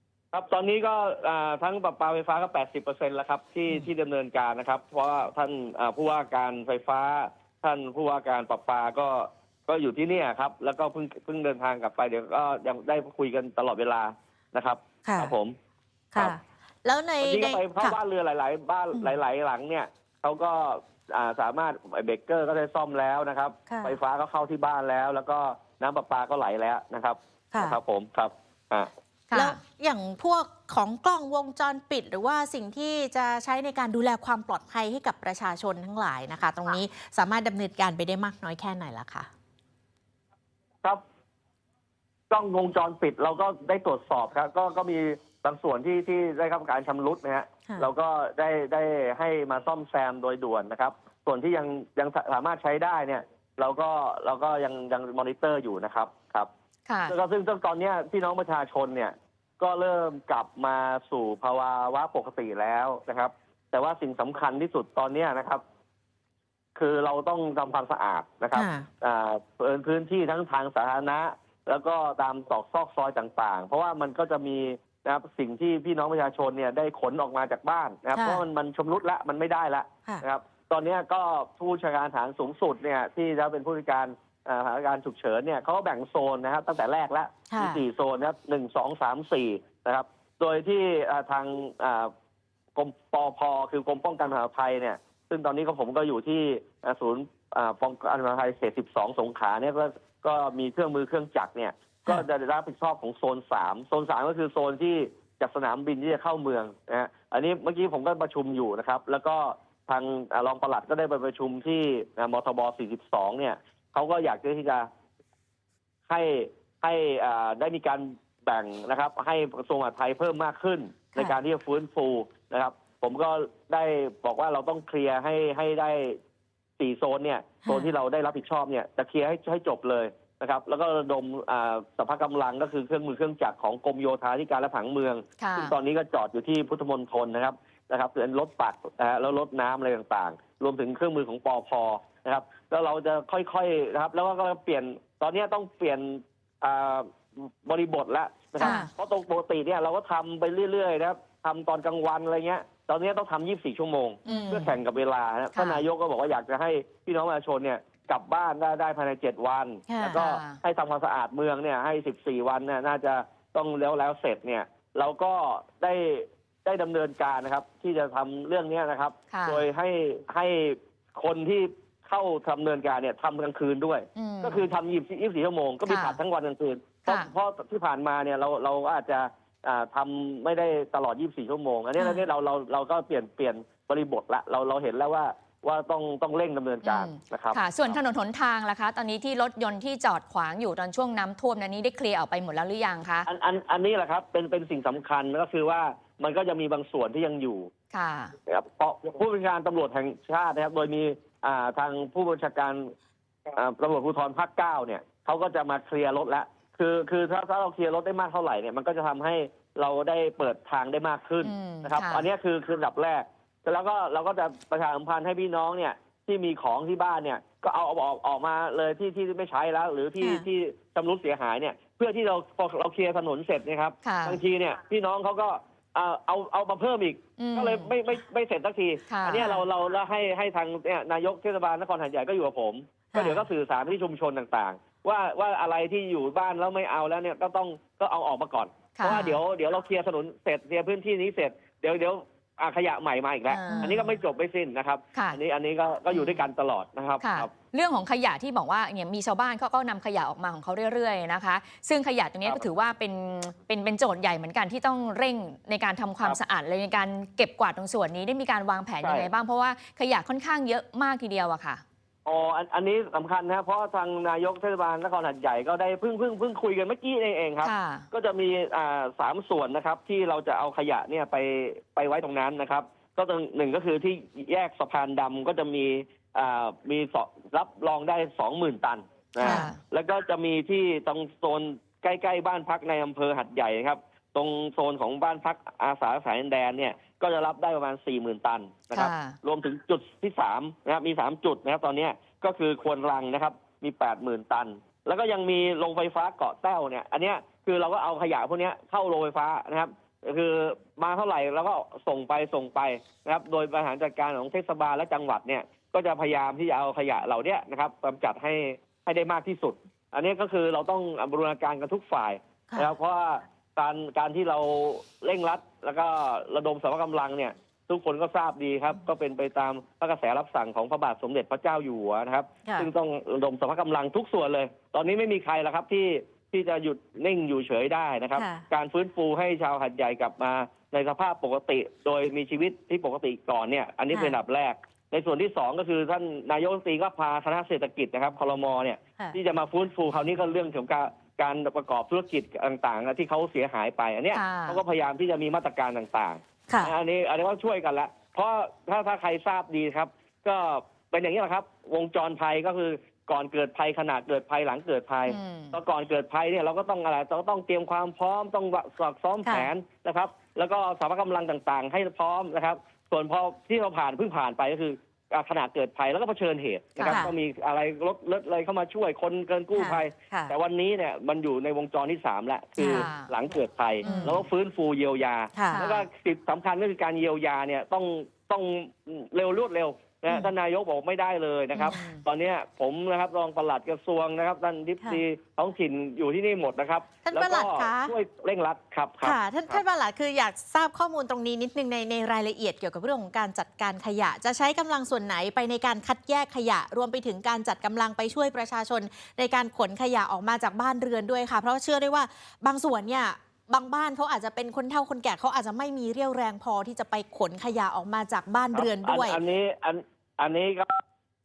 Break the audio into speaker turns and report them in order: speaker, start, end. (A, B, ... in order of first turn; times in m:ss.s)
0:00.3-0:15.6 A
0:15.0-0:15.3 B
0:16.1-0:18.0 B
0:17.2-0:28.9 A
0:23.7-0:23.9 B
0:27.5-0:27.8 B
0:29.3-0:29.6 C
0:29.3-0:39.3 B
0:42.3-0:56.5 A
0:56.9-0:57.1 C
0:57.1-1:05.6 A
1:06.8-1:32.1 A
1:08.5-1:08.9 B
1:18.1-1:18.4 B
1:27.5-1:27.8 B
1:32.7-1:54.9 A
1:56.1-2:06.2 A
2:06.8-3:08.0 A
2:07.6-2:07.9 B
2:15.4-2:15.7 C
2:28.6-2:28.8 C
2:28.6-2:28.9 B
2:34.3-2:34.7 B
2:34.3-2:34.7 C
2:35.5-2:35.8 C
2:39.9-2:40.2 B
2:40.1-2:40.6 C
2:49.3-2:49.6 C
2:54.2-2:54.7 C
2:55.8-2:56.2 C
2:57.0-2:57.3 C
3:02.0-3:02.2 C
3:06.8-3:13.3 C
3:13.3-3:17.7 A
3:17.9-3:18.4 C
3:18.4-3:22.9 A
3:23.5-4:07.5 A
3:31.4-3:32.2 C
3:40.2-3:40.4 B
3:44.0-3:44.4 C
3:47.4-3:47.9 C
3:49.1-3:49.6 C
3:53.1-3:53.4 B
3:59.0-3:59.4 C
4:03.5-4:04.1 C
4:06.1-4:06.5 C
4:07.2-4:21.8 C
4:19.0-4:19.3 A
4:22.2-6:29.8 A
4:27.6-4:28.1 C
4:39.4-4:39.7 B
4:39.4-4:39.8 C
4:48.9-4:49.4 C
5:28.4-5:28.6 B
5:34.1-5:34.4 B
5:44.3-5:44.8 C
5:55.2-5:55.8 C
5:59.4-5:59.7 B
6:07.0-6:07.3 B
6:09.7-6:10.5 B
6:12.8-6:13.1 B
6:12.8-6:13.3 C
6:14.0-6:14.4 C
6:14.0-6:14.4 B
6:15.5-6:15.8 B
6:15.7-6:16.1 C
6:21.7-6:22.0 B
6:21.8-6:22.2 C
6:27.2-6:28.1 B
6:29.2-6:49.4 B
6:48.7-6:51.0 A